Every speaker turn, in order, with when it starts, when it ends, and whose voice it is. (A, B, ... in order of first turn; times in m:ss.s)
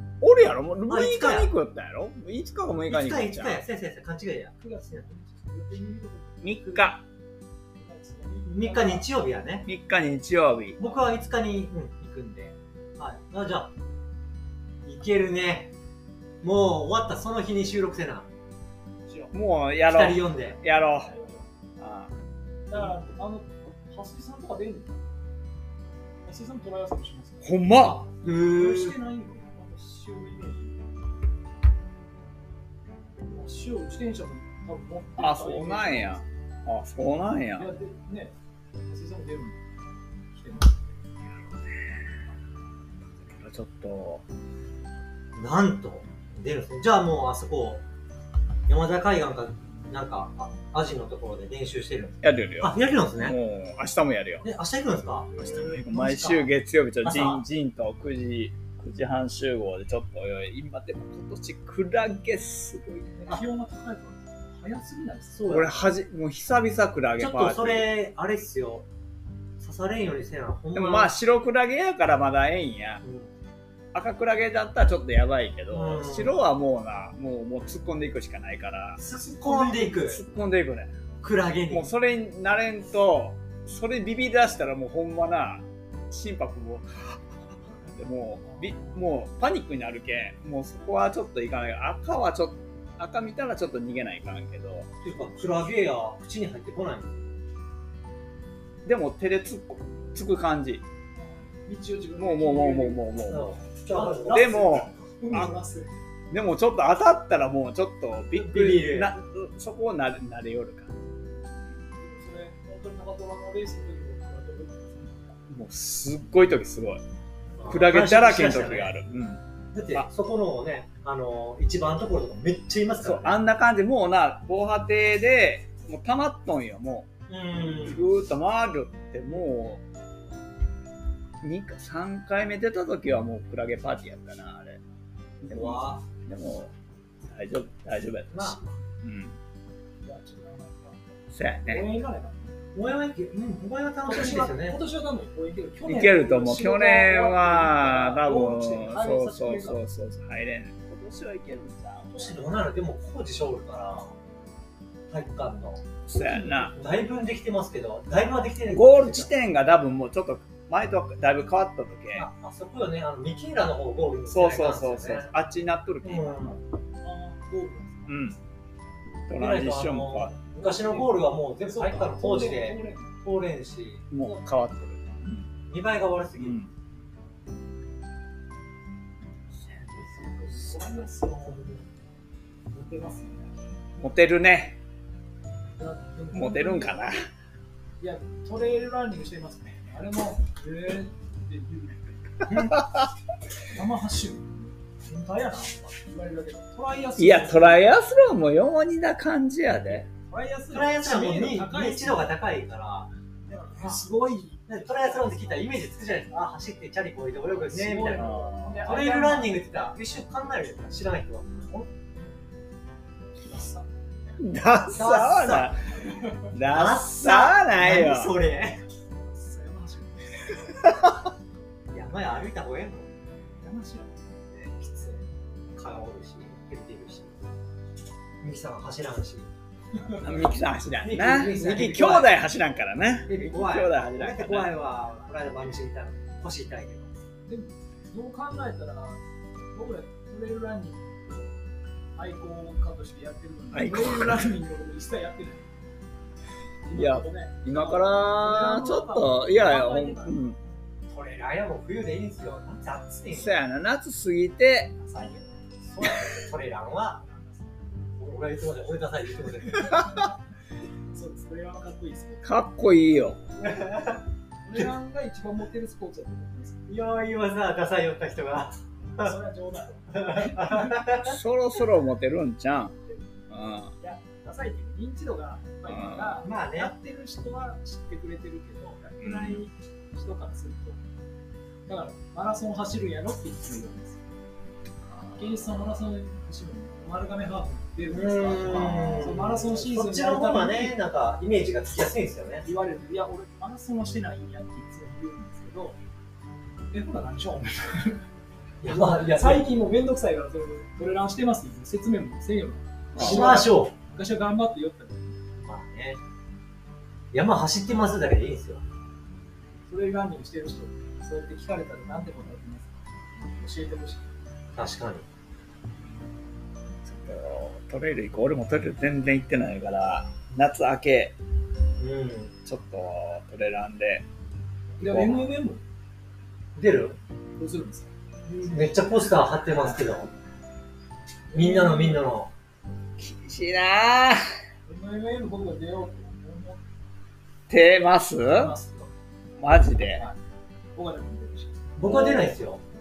0:00.2-0:03.6 A
0:00.9-0:01.5 B
0:02.9-0:04.5 B
0:04.6-0:07.0 C
0:06.4-0:07.0 A
0:07.7-0:09.1 C
0:08.4-0:09.7 B
0:09.7-0:10.8 A
0:10.8-0:13.7 B
0:14.8-0:15.7 B
0:16.4-0:18.3 B
0:19.1-0:19.3 C
0:19.3-0:21.1 A
0:19.8-0:20.6 B
0:21.0-0:21.5 C
0:21.8-0:22.1 A
0:22.7-0:25.1 C
0:26.2-0:27.7 C
0:27.4-0:28.0 A
0:27.8-0:29.0 B
0:28.2-0:30.8 C
0:33.2-0:36.2 C
0:35.2-0:37.7 A
0:37.6-0:39.6 C
0:40.3-0:40.8 C
0:41.4-0:42.0 A
0:43.2-0:44.2 A
0:45.4-0:47.8 B
0:48.7-0:53.4 B
0:52.2-0:54.5 A
0:54.4-0:55.3 B
0:55.3-0:55.9 C
0:55.4-1:03.2 A
0:55.9-0:56.5 B
0:57.0-0:57.4 B
1:03.2-1:05.9 C
1:05.4-1:05.7 B
1:05.4-1:07.9 A
1:07.2-1:08.9 B
1:09.6-1:11.1 B
1:10.7-1:13.0 A
1:13.0-1:13.3 B
1:13.9-1:20.9 A
1:15.7-1:16.4 B
1:19.0-1:20.2 B
1:21.2-1:21.9 B
1:21.7-1:34.9 A
1:28.4-1:29.0 C
1:35.0-1:37.2 B
1:38.8-1:40.8 A
1:41.2-1:43.0 C
1:42.2-1:43.5 A
1:43.2-1:44.6 B
1:43.9-1:46.0 C
1:44.2-1:45.5 A
1:46.3-1:50.9 A
1:48.3-1:49.2 B
1:51.9-1:55.4 C
1:55.5-1:57.0 A
1:57.6-1:58.9 B
1:57.7-1:59.4 A
1:59.7-2:03.4 B
2:03.0-2:09.8 A
2:07.3-2:08.1 B
2:11.4-2:14.8 A
2:15.4-2:16.7 A
2:15.5-2:16.0 B
2:17.3-2:19.4 A
2:18.3-2:18.7 B
2:20.0-2:22.6 C
2:21.3-2:21.8 A
2:22.7-2:24.8 B
2:24.0-2:29.8 C
2:25.8-2:32.4 A
2:32.1-2:34.1 B
2:35.1-2:36.0 B
2:36.1-2:36.8 A
2:36.2-2:36.8 C
2:36.7-2:39.3 B
2:38.7-2:42.3 A
2:42.1-2:45.3 B
2:44.3-2:46.6 A
2:46.0-2:46.6 B
2:47.0-2:48.2 C
2:48.1-2:48.4 A
2:49.3-2:50.4 A
2:49.4-2:54.0 B
2:50.6-2:53.2 C
2:54.1-2:55.4 A
2:54.2-2:54.5 C
2:55.7-2:56.6 B
2:56.4-2:56.7 A
3:00.2-3:01.8 C
3:01.5-3:01.8 B
3:02.7-3:03.5 C
3:04.0-3:04.8 A
3:05.8-3:07.0 C
3:06.3-3:07.2 A
3:08.0-3:12.5 C
3:12.4-3:12.8 B
3:13.7-3:17.9 C
3:17.2-3:20.1 A
3:19.9-3:22.3 C
3:20.7-3:23.1 B
3:23.4-3:25.7 C
3:23.7-3:24.0 B
3:24.7-3:31.9 B
3:27.7-3:29.7 C
3:28.1-3:28.8 A
3:33.4-3:33.9 C
3:34.4-3:38.4 A
3:34.9-3:35.8 B
3:36.1-3:36.5 C
3:36.6-3:38.8 B
3:39.1-3:40.9 C
3:41.9-3:43.1 B
3:43.6-3:45.3 C
3:45.7-3:47.3 B
3:48.4-3:49.5 B
3:50.2-3:54.8 A
3:51.0-3:52.4 B
3:53.3-3:57.1 B
3:57.4-3:59.2 C
3:59.7-4:01.6 C
4:02.2-4:05.7 C
4:03.7-4:04.5 A
4:06.8-4:10.4 C
4:06.9-4:10.6 A
4:11.1-4:13.6 B
4:13.3-4:14.9 A
4:15.0-4:15.5 C
4:15.9-4:17.2 B
4:17.1-4:17.8 C
4:18.2-4:20.0 B
4:19.7-4:20.3 C
4:21.1-4:22.5 C
4:22.4-4:23.4 A
4:23.6-4:24.2 B
4:24.6-4:26.9 C
4:26.9-4:29.3 B
4:29.1-4:31.2 C
4:30.1-4:31.4 B
4:31.1-4:33.0 A
4:33.0-4:41.0 C
4:33.5-4:33.9 A
4:35.9-4:36.4 A
4:36.4-4:36.9 B
4:39.2-4:39.6 A
4:41.9-4:44.2 C
4:45.1-4:45.6 A
4:45.4-4:51.0 C
4:48.1-4:52.6 B
4:48.9-4:49.2 A
4:52.6-4:56.0 C
4:56.9-4:58.2 C
4:58.8-4:59.7 B
4:58.8-5:05.4 C
5:03.1-5:03.5 A
5:03.2-5:03.9 B
5:05.6-5:06.2 B
5:07.3-5:08.8 B
5:09.9-5:14.3 C
5:14.7-5:15.2 B
5:17.0-5:21.4 A
5:22.0-5:22.5 B
5:22.6-5:24.2 A
5:25.0-5:25.8 C
5:25.0-5:25.5 A
5:26.8-5:27.2 B
5:27.6-5:28.8 C
5:28.6-5:30.3 B
5:31.5-5:32.3 C
5:31.5-5:32.5 B
5:33.2-5:34.4 A
5:34.8-5:36.8 C
5:37.7-5:38.7 A
5:38.4-5:39.1 C
5:39.6-5:40.2 A
5:40.9-5:41.9 C
5:42.0-5:42.8 B
5:42.0-5:42.5 A